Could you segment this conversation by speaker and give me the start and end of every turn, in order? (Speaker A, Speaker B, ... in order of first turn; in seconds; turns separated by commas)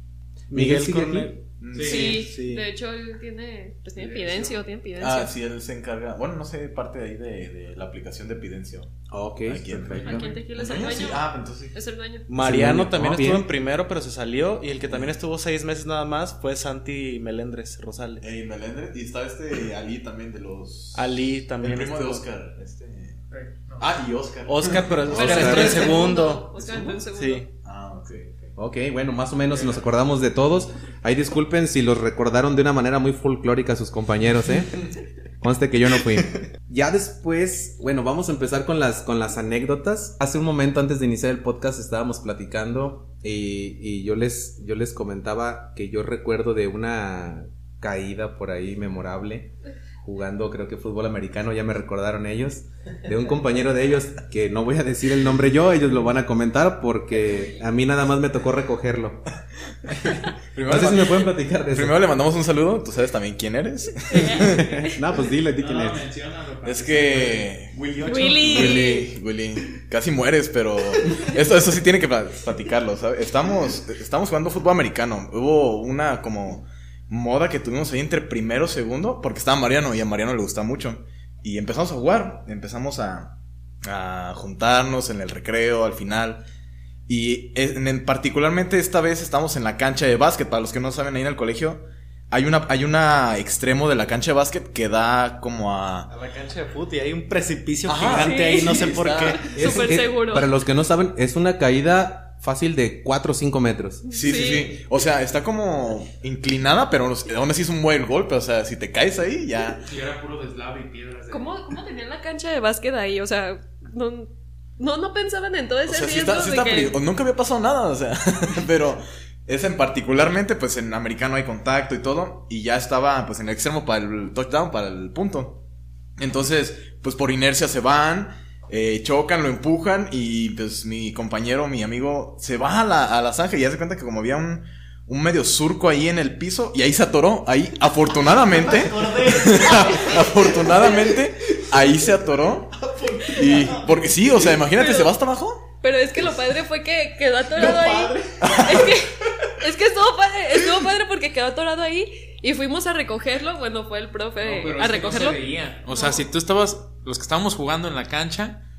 Speaker A: 0.5-1.3, Speaker B: 0.5-2.6, Speaker C: 1.6-2.2, Speaker D: 1.7-2.1, Speaker E: 1.8-5.3, Speaker D: 4.0-4.6, Speaker C: 5.0-8.9, Speaker A: 9.1-10.3, Speaker C: 9.4-11.7, Speaker E: 10.0-12.2, Speaker B: 12.3-18.2, Speaker A: 12.4-13.4, Speaker C: 14.9-15.1, Speaker C: 18.2-23.2, Speaker B: 20.9-22.2, Speaker D: 23.3-23.9, Speaker C: 23.8-25.9, Speaker B: 24.5-27.4, Speaker A: 25.1-25.8, Speaker E: 25.2-27.4, Speaker D: 25.4-25.9, Speaker C: 27.6-28.5, Speaker A: 28.6-34.8, Speaker A: 35.4-59.2, Speaker C: 60.5-64.6, Speaker A: 60.6-62.1, Speaker E: 64.1-64.9, Speaker A: 64.6-66.0, Speaker D: 65.6-67.6, Speaker C: 66.6-86.4, Speaker E: 68.0-69.0, Speaker B: 68.1-68.4, Speaker A: 68.4-69.1, Speaker C: 87.1-96.1, Speaker B: 96.1-99.9, Speaker C: 97.8-99.4, Speaker E: 98.2-100.5, Speaker A: 99.5-104.0, Speaker E: 104.1-104.8, Speaker C: 104.1-109.8, Speaker D: 109.9-111.4, Speaker E: 111.3-117.0, Speaker C: 115.9-125.6, Speaker C: 126.2-142.7, Speaker B: 138.5-141.8, Speaker E: 139.9-140.1, Speaker B: 142.7-143.9, Speaker C: 143.3-145.6, Speaker E: 144.7-145.1, Speaker E: 145.8-156.2, Speaker B: 147.5-148.4, Speaker C: 148.4-148.9, Speaker D: 154.4-158.6